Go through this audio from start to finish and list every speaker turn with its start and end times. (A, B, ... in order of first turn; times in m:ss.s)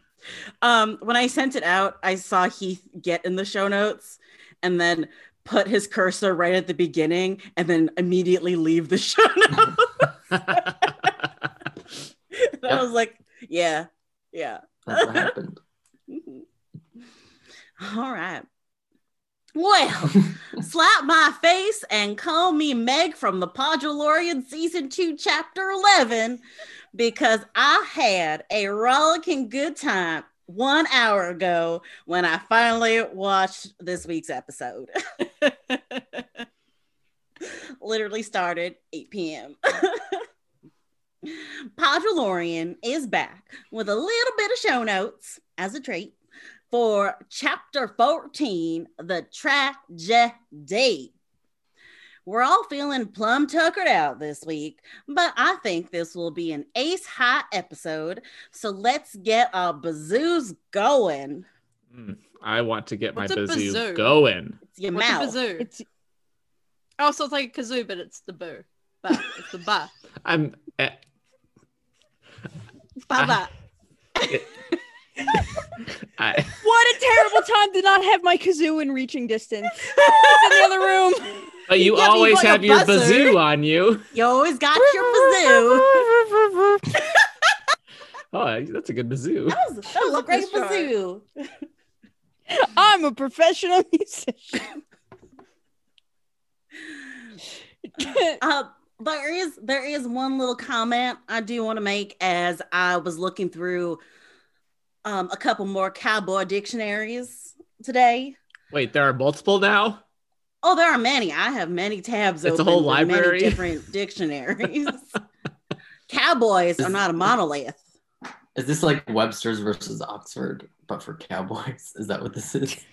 0:00.6-0:11.1 A
0:12.3-0:15.3 A
0:14.9-0:15.6 B
0:16.1-0:16.4 A
0:17.8-0:18.5 A
0:19.6-0:26.4 A
0:26.9-0:34.9 A
0:35.4-0:36.2 A
0:37.4-0:40.2 A
0:41.3-0:46.2 A
0:46.7-0:51.1 A
0:52.2-1:01.5 A
1:01.9-1:04.6 C
1:03.2-1:04.2 D
1:04.6-1:05.4 A
1:04.9-1:05.7 D
1:05.6-1:05.8 E
1:07.0-1:09.9 D
1:10.2-1:11.0 C
1:13.0-1:13.5 D
1:13.2-1:13.4 C
1:16.2-1:16.6 C
1:16.6-1:21.5 E
1:21.7-1:24.1 C
1:21.8-1:23.4 D
1:24.1-1:26.1 A
1:24.8-1:27.0 E
1:28.3-1:29.6 C
1:29.5-1:31.2 A
1:30.0-1:30.9 D
1:32.5-1:34.7 E
1:37.9-1:38.4 E
1:38.4-1:44.0 A
1:45.0-1:48.4 A
1:48.7-1:50.0 C
1:50.6-1:55.1 A
1:52.4-1:53.7 C
1:56.1-1:57.8 A
1:58.6-2:02.8 B